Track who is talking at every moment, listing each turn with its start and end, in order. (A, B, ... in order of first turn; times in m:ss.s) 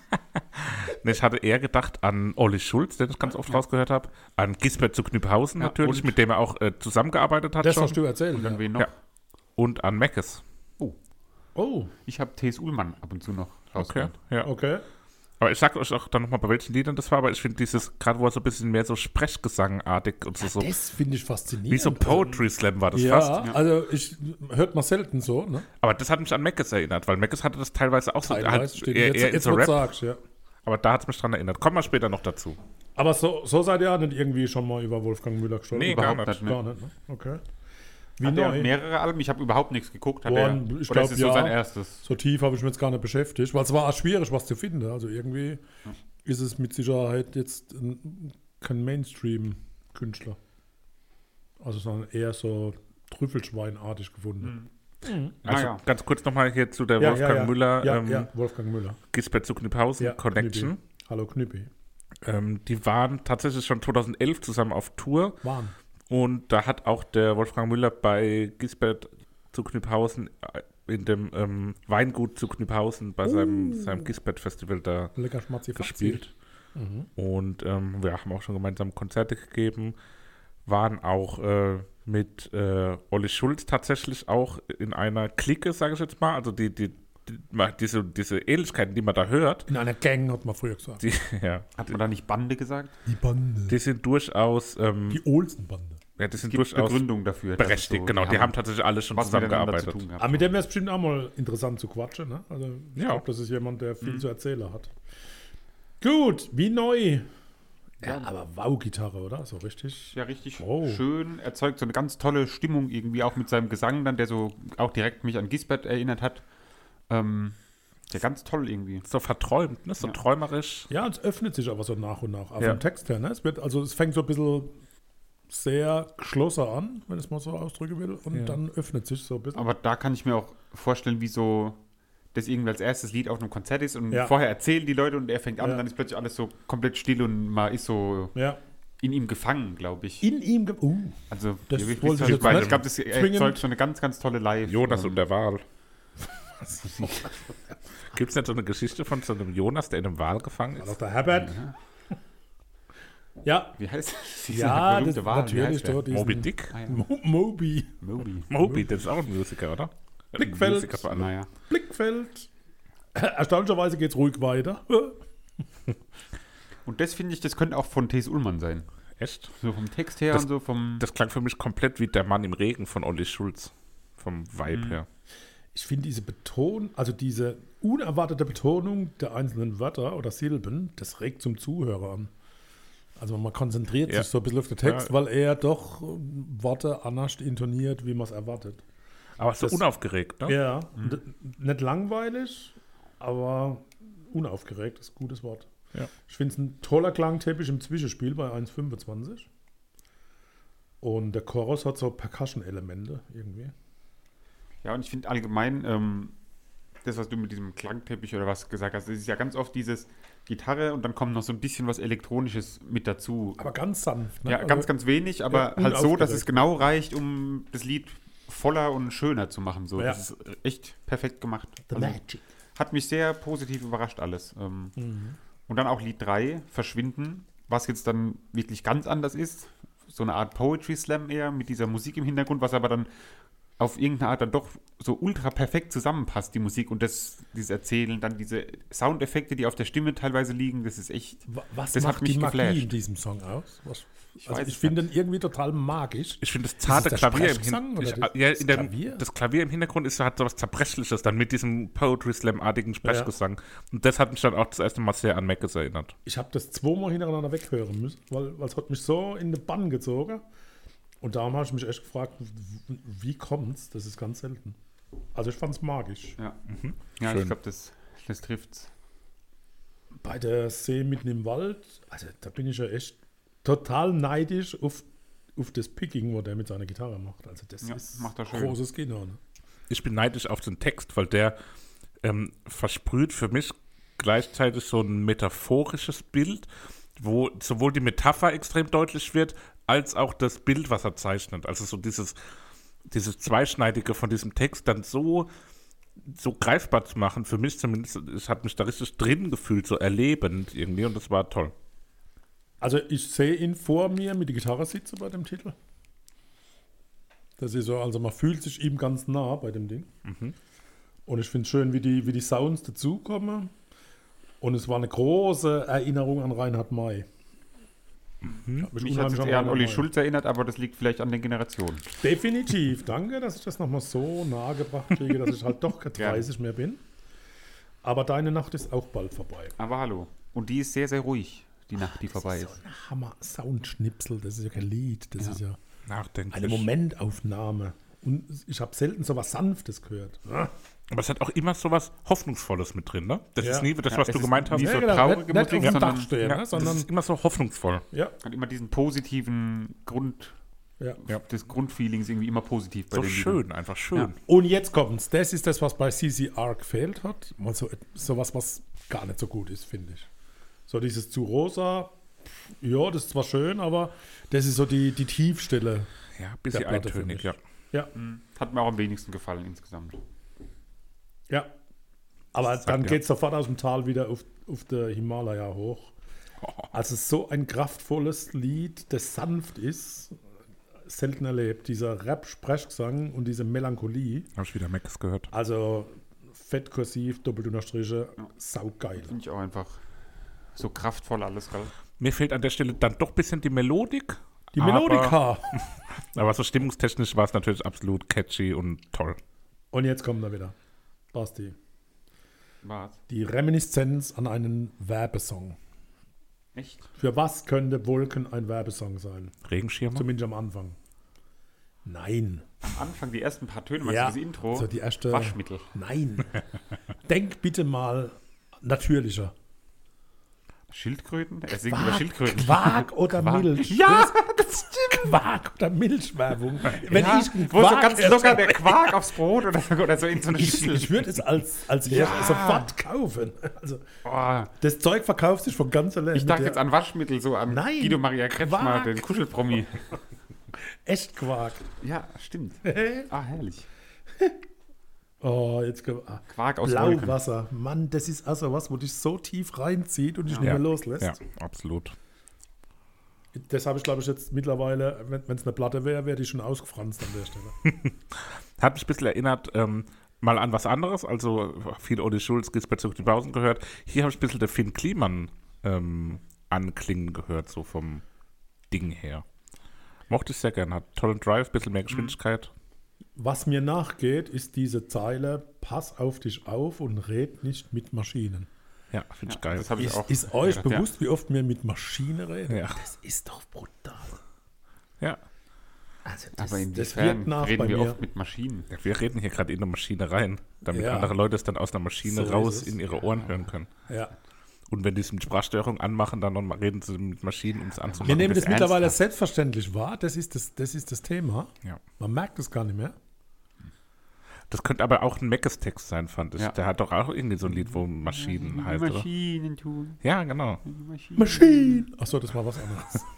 0:00.2-0:08.0 A
0:05.6-0:06.1 B
0:07.6-0:08.6 C
0:08.3-0:08.9 B
0:09.6-0:10.4 A
0:11.6-0:11.9 C
0:12.1-0:14.2 B
0:13.8-0:14.5 A
0:14.4-0:14.8 C
0:15.4-0:20.8 A
0:20.4-0:25.7 C
0:21.7-0:23.5 A
0:25.8-0:29.9 A
0:28.2-0:30.2 C
0:30.6-0:32.6 A
0:33.0-0:37.4 C
0:35.7-0:36.4 A
0:35.9-0:36.6 B
0:38.2-0:38.7 C
0:38.2-0:42.0 B
0:40.3-0:45.6 C
0:46.2-0:50.4 C
0:51.6-0:55.4 C
0:54.4-0:54.7 B
0:55.4-0:55.8 B
0:55.4-0:58.3 A
0:57.0-0:59.0 C
0:59.1-1:00.8 A
1:00.0-1:01.7 C
1:02.2-1:05.4 A
1:05.4-1:05.8 C
1:06.1-1:15.1 A
1:13.3-1:14.1 C
1:15.2-1:17.1 C
1:15.8-1:16.3 A
1:17.2-1:20.0 A
1:20.7-1:29.7 A
1:29.7-1:31.0 C
1:31.0-1:31.8 A
1:31.8-1:33.0 B
1:33.1-1:33.8 C
1:33.7-1:35.2 A
1:35.1-1:36.0 C
1:36.2-1:37.0 A
1:36.4-1:38.6 B
1:37.6-1:40.0 A
1:39.1-1:40.5 B
1:40.2-1:44.9 C
1:43.0-1:43.2 A
1:44.0-1:44.3 B
1:46.0-1:47.3 C
1:48.0-1:51.0 C
1:50.1-1:56.4 B
1:57.1-1:57.6 B
1:58.1-1:59.0 B
1:59.1-2:00.9 A
2:00.9-2:04.8 C
2:05.5-2:09.7 C
2:08.3-2:08.6 A
2:09.6-2:11.8 B
2:12.3-2:18.3 B
2:18.4-2:18.6 C
2:19.0-2:20.2 B
2:20.2-2:23.6 C
2:21.3-2:25.2 B
2:22.1-2:22.8 A
2:24.6-2:25.6 A
2:26.6-2:27.3 C
2:28.1-2:31.0 A
2:30.8-2:31.6 C
2:31.3-2:31.7 B
2:33.4-2:33.7 C
2:33.8-2:36.1 B
2:34.5-2:38.0 C
2:36.1-2:36.8 A
2:36.7-2:37.0 B
2:38.0-2:38.5 B
2:38.5-2:41.3 A
2:38.6-2:39.0 C
2:40.4-2:41.1 C
2:41.0-2:41.5 B
2:41.7-2:42.5 C
2:43.2-2:45.2 C
2:46.9-2:48.9 B
2:49.2-2:49.5 A
2:49.6-2:51.0 B
2:51.0-2:55.1 A
2:54.7-2:55.0 B
2:55.7-3:02.3 C
3:03.2-3:08.8 C
3:04.8-3:05.1 A
3:09.4-3:10.6 A
3:10.5-3:15.7 C
3:16.3-3:19.5 C
3:21.0-3:23.7 C
3:24.8-3:26.4 B
3:27.0-3:33.7 B
3:33.6-3:34.9 C
3:34.5-3:42.2 B
3:35.5-3:36.7 C
3:41.9-3:42.4 C
3:42.8-3:45.0 B
3:45.0-3:45.4 C
3:45.7-3:53.1 B
3:53.8-4:02.9 B
4:01.5-4:09.2 C
4:04.4-4:05.1 B
4:06.4-4:16.2 A
4:13.0-4:13.3 C
4:16.3-4:20.4 C
4:21.2-4:24.8 C
4:25.4-4:26.4 C
4:26.7-4:27.6 A
4:27.2-4:28.9 B
4:30.2-4:35.0 C
4:35.6-4:39.4 C
4:37.8-4:38.8 B
4:39.9-4:41.6 A
4:42.2-4:52.4 A
4:53.1-4:55.5 A
4:56.2-5:01.7 A
5:02.8-5:05.8 C
5:07.6-5:10.1 C
5:10.2-5:10.6 A
5:11.3-5:13.7 C
5:14.6-5:17.3 C
5:18.4-5:18.9 A
5:18.8-5:20.1 C
5:19.0-5:22.1 B
5:22.2-5:27.0 C
5:26.2-5:26.5 B
5:28.0-5:29.7 C
5:29.8-5:32.8 B
5:32.0-5:35.8 C
5:36.1-5:36.9 A
5:36.5-5:40.7 C
5:41.1-5:48.0 A
5:43.6-5:43.9 C
5:44.1-5:46.3 B
5:44.7-5:47.1 C
5:48.4-5:50.6 B
5:51.2-5:53.6 B
5:53.1-5:54.4 A
5:54.5-6:00.3 C
6:00.9-6:02.1 C
6:02.8-6:06.1 C
6:06.4-6:07.6 A
6:06.7-6:08.1 C
6:08.2-6:10.2 B
6:12.5-6:16.1 C
6:12.6-6:13.2 A
6:16.6-6:16.9 A
6:16.9-6:20.4 C
6:21.1-6:24.5 C
6:24.6-6:25.5 A
6:25.5-6:29.3 C
6:29.2-6:30.0 B
6:30.8-6:31.9 B
6:32.2-6:39.4 A
6:34.7-6:35.8 C
6:39.9-6:40.7 C
6:41.3-6:41.8 C
6:42.8-6:43.2 B
6:43.3-6:45.8 C
6:46.8-6:47.0 B
6:47.2-6:49.6 C
6:49.6-6:50.2 A
6:50.1-6:51.0 C
6:52.0-6:52.6 C
6:52.8-6:55.9 B
6:54.0-6:56.6 C
6:57.2-6:59.5 C
7:00.9-7:05.3 B
7:01.9-7:04.4 C
7:05.1-7:09.2 C
7:07.1-7:11.3 B
7:10.5-7:14.0 C
7:12.1-7:12.9 B
7:14.2-7:14.7 B
7:14.8-7:16.8 C
7:16.3-7:20.2 B
7:17.7-7:19.2 C
7:21.0-7:21.8 C
7:22.0-7:23.9 B
7:22.8-7:23.3 C
7:25.4-7:31.4 C
7:26.5-7:27.4 B
7:30.6-7:32.2 A
7:33.5-7:37.8 C
7:37.8-7:48.2 A
7:48.9-7:49.4 A
7:50.3-7:52.7 A
7:52.1-7:52.4 B
7:53.4-7:58.7 C
7:59.1-8:00.0 A
7:59.5-8:01.1 B
8:00.0-8:04.4 C
8:02.7-8:03.0 A
8:06.3-8:08.2 C
8:06.6-8:08.9 B
8:08.9-8:13.9 A
8:10.9-8:11.4 C
8:12.2-8:13.0 C
8:13.3-8:13.6 B
8:14.9-8:19.0 A
8:18.0-8:19.1 B
8:18.2-8:23.2 C
8:24.7-8:29.3 A
8:27.7-8:30.2 B
8:30.2-8:30.8 A
8:30.8-8:32.0 B
8:31.4-8:33.3 C